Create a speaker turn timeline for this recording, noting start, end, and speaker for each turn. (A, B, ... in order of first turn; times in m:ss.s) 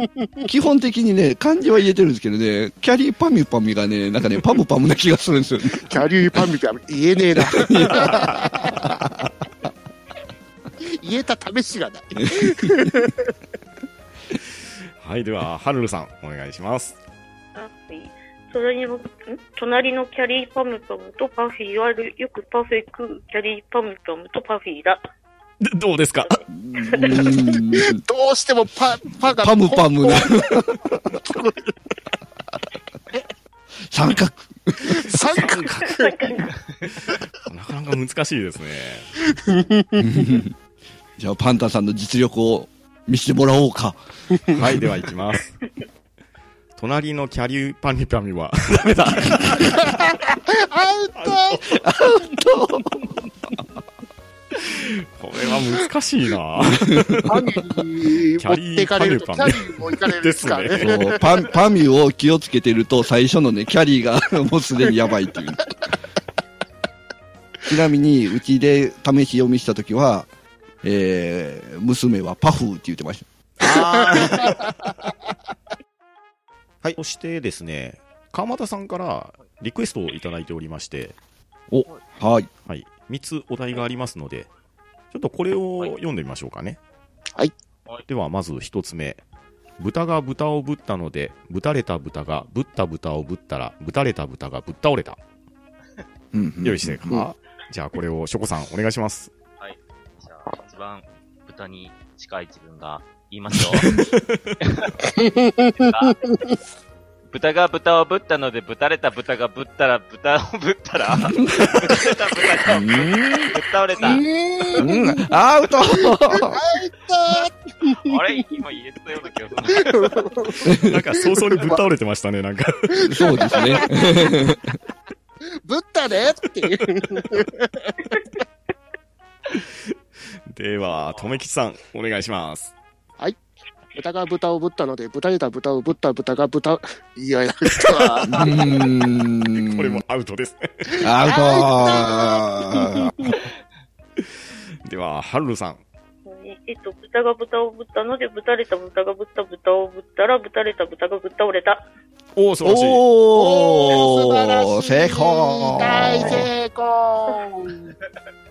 0:00.4-0:05.9 A
0:05.8-0:08.7 B
0:07.4-0:09.3 A
0:10.8-0:13.3 B
0:15.0-0:17.0 C
0:17.5-0:25.0 D
0:25.6-0:26.4 C
0:26.2-0:27.6 D
0:26.5-0:28.0 A
0:27.8-0:31.7 B
0:29.3-0:31.0 A
0:33.9-0:35.1 A
0:34.8-0:36.3 B
0:35.8-0:36.5 D
0:37.4-0:39.2 C
0:39.4-0:40.0 B
0:40.0-0:40.5 A
0:41.2-0:44.0 A
0:44.5-0:45.6 C
0:46.8-0:50.0 C
0:49.6-0:51.6 B
0:51.1-0:51.8 C
0:51.7-0:53.1 A
0:54.5-0:57.4 C
0:57.3-1:01.2 B
0:58.4-1:01.1 C
1:00.8-1:05.7 A
1:07.7-1:10.3 A
1:10.8-1:13.2 A
1:13.6-1:14.9 C
1:14.1-1:14.5 B
1:16.8-1:21.2 C
1:21.7-1:22.5 A
1:22.6-1:24.5 C
1:25.1-1:26.8 C
1:28.1-1:29.2 C
1:29.8-1:35.2 C
1:36.3-1:37.2 A
1:36.6-1:39.3 C
1:39.6-1:43.9 E
1:43.8-1:44.5 C
1:44.7-1:44.9 E
1:45.2-1:45.7 B
1:45.7-1:46.2 E
1:47.3-1:54.2 E
1:52.7-1:53.5 A
1:54.0-1:55.0 B
1:54.8-1:56.6 A
1:56.0-1:58.2 B
1:57.9-2:00.3 E
1:59.7-2:00.7 B
2:00.6-2:01.0 A
2:00.6-2:03.1 C
2:01.3-2:01.8 B
2:03.0-2:04.1 B
2:03.1-2:04.8 A
2:05.6-2:08.2 B
2:10.5-2:12.7 C
2:14.0-2:18.6 B
2:18.3-2:20.0 A
2:19.6-2:20.9 C
2:20.9-2:22.8 B
2:21.0-2:23.3 A
2:24.8-2:25.8 C
2:26.2-2:31.8 D
2:32.3-2:33.0 C
2:32.6-2:36.5 A
2:33.3-2:37.9 B